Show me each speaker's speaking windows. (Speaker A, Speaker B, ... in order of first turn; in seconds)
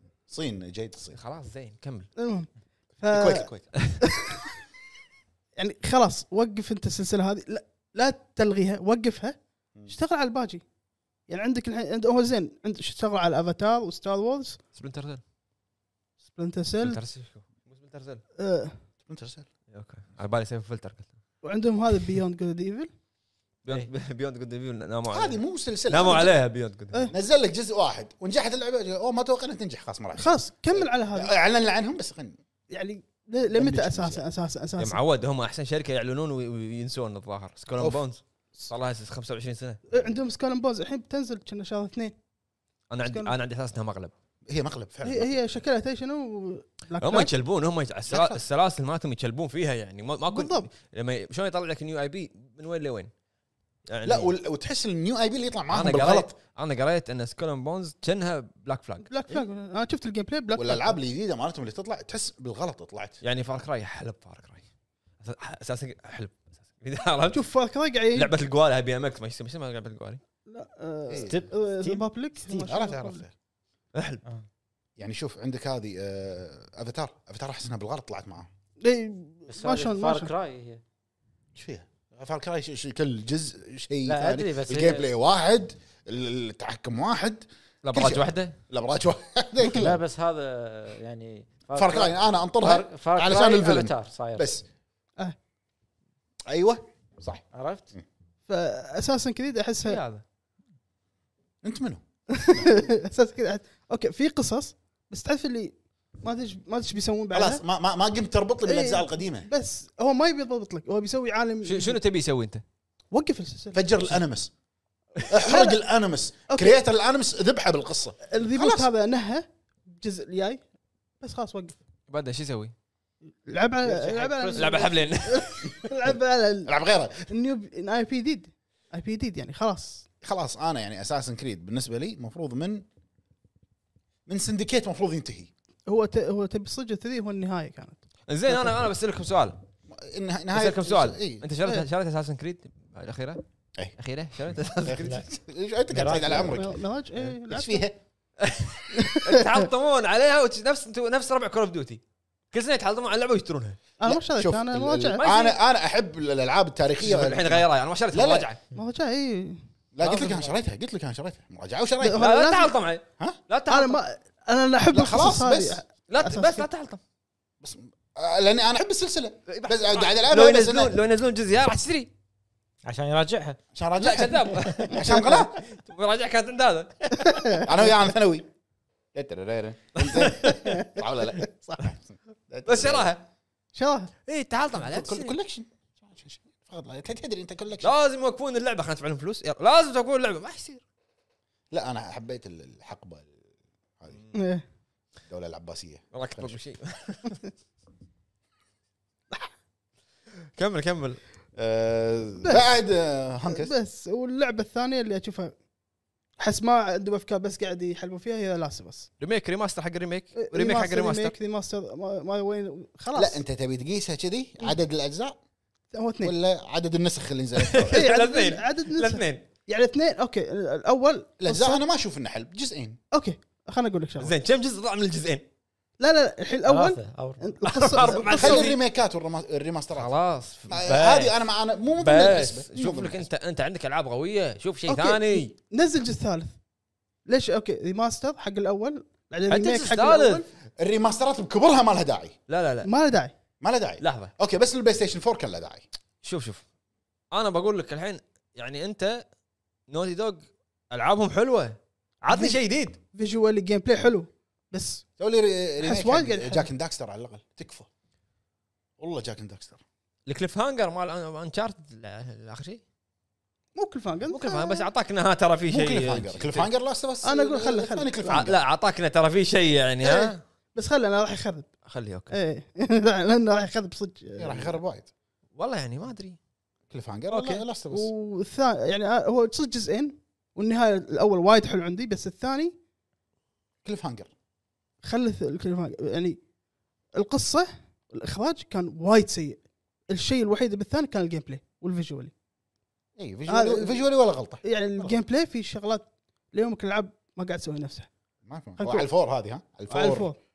Speaker A: 0.3-1.2, 3.1-3.7, 19.1-19.5, 25.1-26.4, 27.1-32.4, 33.5-34.2, 37.8-38.0, 44.5-45.4, 48.1-48.4, 54.0-56.3, 60.5-63.2, 71.1-71.4, 72.5-73.3, 75.0-78.5, 81.5-90.0, 91.7-94.6, 96.5-98.0, 101.6-102.7, 107.3-109.5, 113.7-114.5, 115.2-118.9, 126.7-127.3, 130.2-132.8, 134.2-135.5, 139.9-141.4, 144.8-146.8, 147.5-148.0, 154.0-158.5, 159.9-162.2, 164.9-165.8, 167.6-171.0, 173.7-175.6, 177.6-178.5, 179.1-183.1, 184.7-187.9, 191.7-193.3, 195.3-196.6, 201.6-203.7, 213.1-215.4, 216.2-218.1, 221.4-223.0, 228.2-230.1, 230.7-233.3, 240.8-242.3, 243.6-245.8, 255.2-257.9, 259.0-259.8, 265.7-268.6, 274.4-275.1, 276.9-278.1, 283.8-284.3, 293.2-295.2, 298.4-300.3
Speaker B: 1.1-2.1, 14.7-15.2, 16.8-18.2, 19.7-21.1, 23.6-27.1, 34.8-39.8, 42.9-44.1, 47.0-53.1, 53.9-54.3, 55.7-59.4, 63.2-64.6, 65.2-67.5, 68.1-70.2, 73.9-74.2, 87.8-88.5, 99.8-100.2, 111.6-112.6, 122.1-122.7, 124.5-125.9, 138.3-139.6, 140.5-143.4, 144.0-145.3, 148.4-152.0, 152.5-153.8, 155.2-155.5, 157.0-158.6, 160.0-160.5, 162.1-164.0, 166.1-167.0, 169.5-172.1, 174.0-177.7, 179.9-180.8, 182.6-183.2, 184.3-185.3, 187.8-190.8, 196.1-197.4, 200.5-201.2, 209.2-211.3, 217.6-219.4, 224.2-225.4, 227.6-228.8, 229.9-231.4, 231.9-235.5, 239.5-240.4, 242.5-242.9, 244.0-244.3, 246.2-246.6, 247.3-249.2, 249.9-253.0, 260.2-262.8, 264.3-266.7, 268.2-270.4, 271.9-272.4, 275.6-276.4
Speaker C: 2.2-2.5, 3.0-3.5, 4.0-4.4, 5.5-10.6, 11.3-14.6, 16.3-17.0, 18.4-18.7, 21.4-22.9, 30.2-31.3, 32.7-35.0, 39.9-42.1, 43.0-43.3, 45.0-47.3, 50.3-50.7, 59.0-61.0, 67.3-68.3, 70.5-73.2, 78.8-80.3, 98.5-100.0, 102.3-107.6, 108.7-112.0, 113.1-113.9, 115.4-115.8, 116.5-116.8, 118.3-120.6, 121.2-121.8, 123.5-126.7, 127.3-130.1, 135.9-138.0, 146.3-147.8, 148.9-149.5, 154.0-155.3, 158.7-159.6, 162.0-162.8, 163.7-166.7, 174.9-175.4, 177.2-177.9, 180.2-181.4, 183.7-184.1, 194.3-194.6, 203.5-205.5, 206.4-209.1, 210.4-213.4, 215.9-216.3, 217.9-221.8, 223.1-224.3, 226.0-228.7, 234.9-236.5, 237.2-240.4, 242.8-243.3, 252.3-252.6, 253.1-255.0, 255.8-256.7, 263.7-264.9, 267.2-268.1, 270.0-271.7, 272.3-274.8, 277.3-282.7, 285.0-286.4, 287.1-292.3, 293.5-294.0, 294.6-298.1, 298.8-299.1, 299.9-300.4
Speaker D: 71.2-72.6, 79.5-80.8, 84.0-85.1, 89.7-94.5, 97.5-97.9, 123.8-124.9, 145.0-145.2, 145.9-146.7, 172.8-173.6, 226.6-227.5